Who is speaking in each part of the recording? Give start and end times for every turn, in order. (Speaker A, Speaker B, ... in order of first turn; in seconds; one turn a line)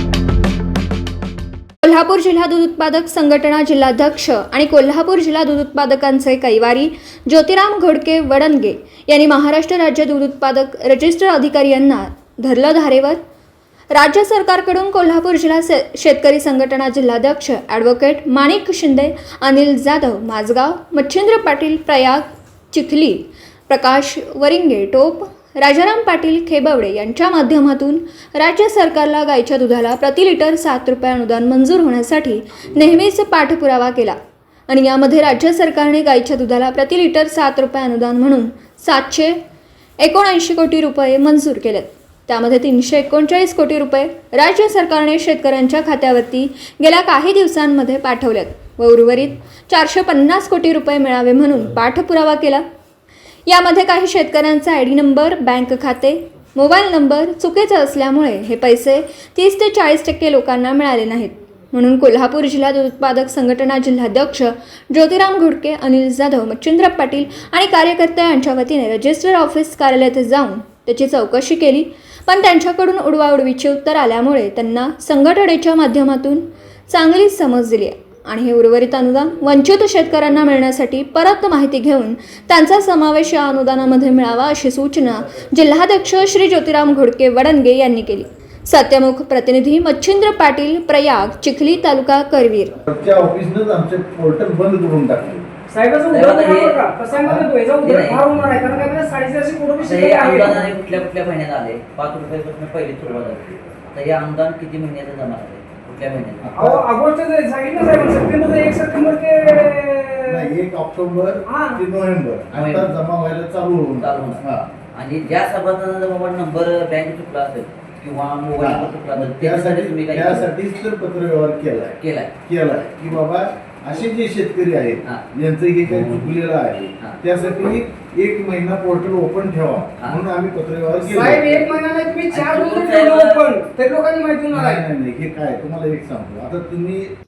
Speaker A: 1.8-13.2
Speaker A: 13.9-34.2
Speaker A: 34.7-39.4
Speaker A: 40.0-52.6
Speaker A: 53.5-92.8
Speaker B: 92.9-95.5
Speaker C: 95.7-100.7
Speaker D: 96.1-96.9
Speaker B: 97.2-97.5
Speaker D: 97.8-98.3
Speaker D: 99.8-106.5
Speaker B: 106.4-106.8
Speaker C: 106.6-110.5
Speaker B: 110.3-114.7
Speaker C: 111.5-111.8
Speaker D: 112.5-112.9
Speaker D: 114.0-120.5
Speaker B: 118.6-131.7
Speaker D: 121.9-123.2
Speaker D: 125.9-126.3
Speaker C: 131.0-134.8
Speaker D: 132.3-133.5
Speaker B: 134.5-137.1